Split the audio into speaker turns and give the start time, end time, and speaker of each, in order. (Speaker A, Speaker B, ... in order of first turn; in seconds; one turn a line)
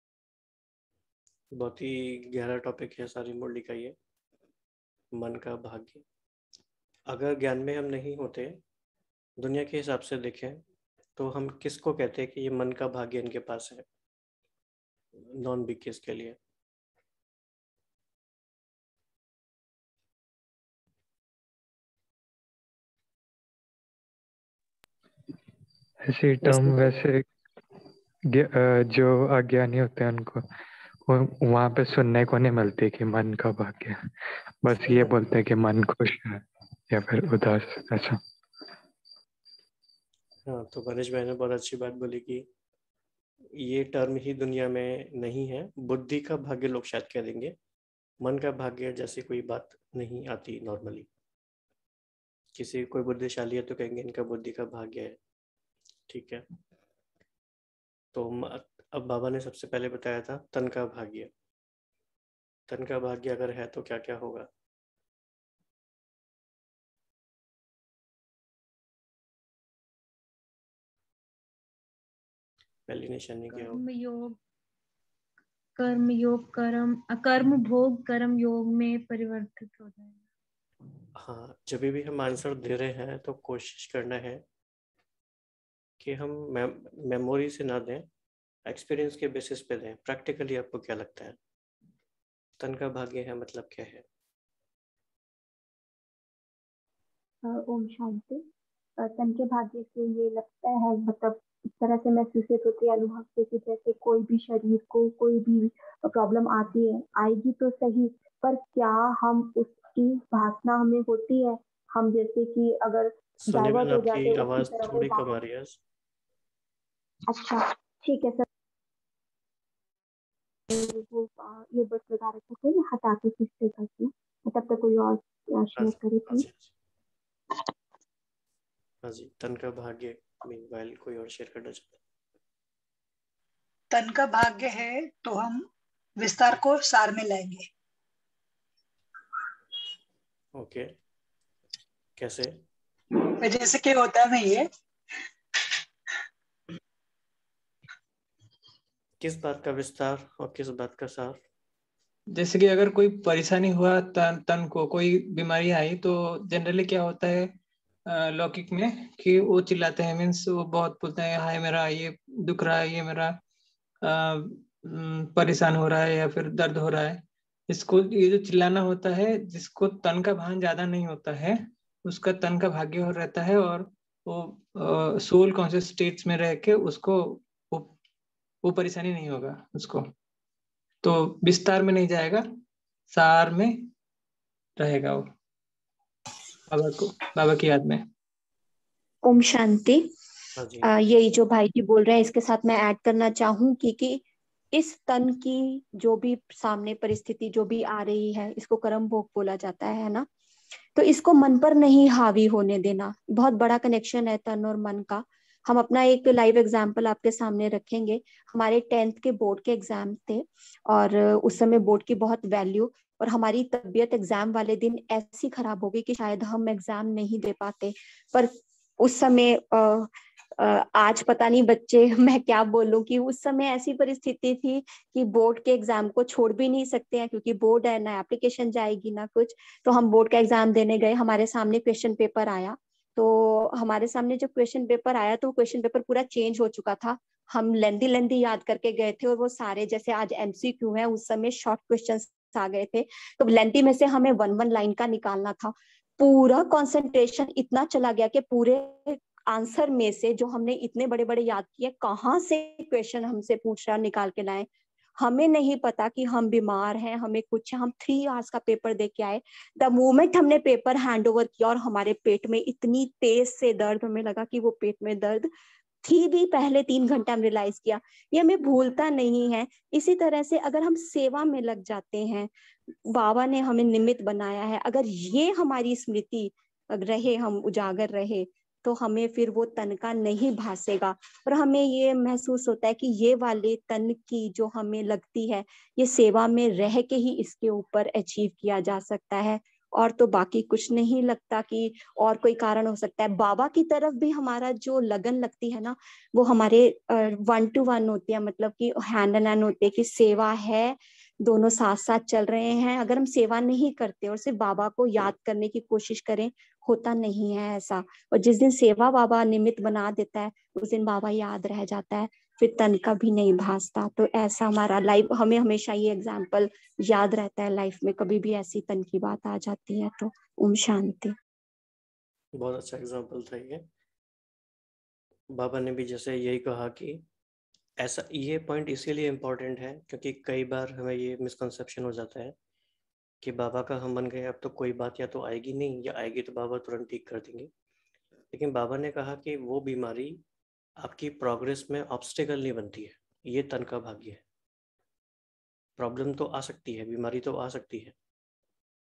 Speaker A: 1.5-4.0
Speaker A: 5.2-6.0
Speaker A: 7.1-8.6
Speaker A: 9.4-10.6
Speaker A: 11.2-13.9
Speaker A: 15.3-16.4
Speaker B: 26.1-27.2
Speaker B: 28.3-30.4
Speaker B: 31.1-34.0
Speaker B: 34.6-38.2
Speaker A: 40.5-42.4
Speaker A: 43.6-47.5
Speaker A: 48.2-51.1
Speaker A: 52.6-55.2
Speaker A: 56.1-56.5
Speaker A: 58.1-61.3
Speaker A: 62.7-64.5
Speaker A: 72.9-73.8
Speaker C: 73.5-74.4
Speaker C: 75.8-80.2
Speaker A: 81.2-84.4
Speaker A: 86.0-88.1
Speaker A: 88.7-91.4
Speaker A: 92.6-94.0
Speaker D: 97.4-98.4
Speaker D: 99.0-115.4
Speaker A: 113.5-115.8
Speaker D: 117.3-118.5
Speaker D: 120.7-126.5
Speaker A: 125.8-126.7
Speaker A: 129.0-132.0
Speaker E: 133.9-135.7
Speaker E: 136.2-137.7
Speaker A: 140.6-140.9
Speaker A: 142.2-142.6
Speaker E: 143.4-144.7
Speaker A: 149.2-151.4
Speaker F: 152.3-157.5
Speaker F: 158.1-163.4
Speaker F: 164.0-177.9
Speaker F: 178.6-180.1
Speaker F: 181.0-182.4
Speaker F: 183.1-183.9
Speaker F: 184.8-185.3
Speaker F: 186.7-188.0
Speaker D: 189.2-190.1
Speaker A: 190.6-190.9
Speaker D: 190.8-194.2
Speaker D: 194.7-200.3
Speaker D: 201.0-254.7
Speaker D: 255.2-265.5
Speaker D: 266.0-321.4
Speaker A: 322.6-323.9
Speaker A: 325.5-327.2
Speaker A: 328.0-332.6
Speaker A: 333.4-337.7
Speaker A: 338.5-340.4
Speaker A: 341.0-344.4
Speaker A: 346.0-348.1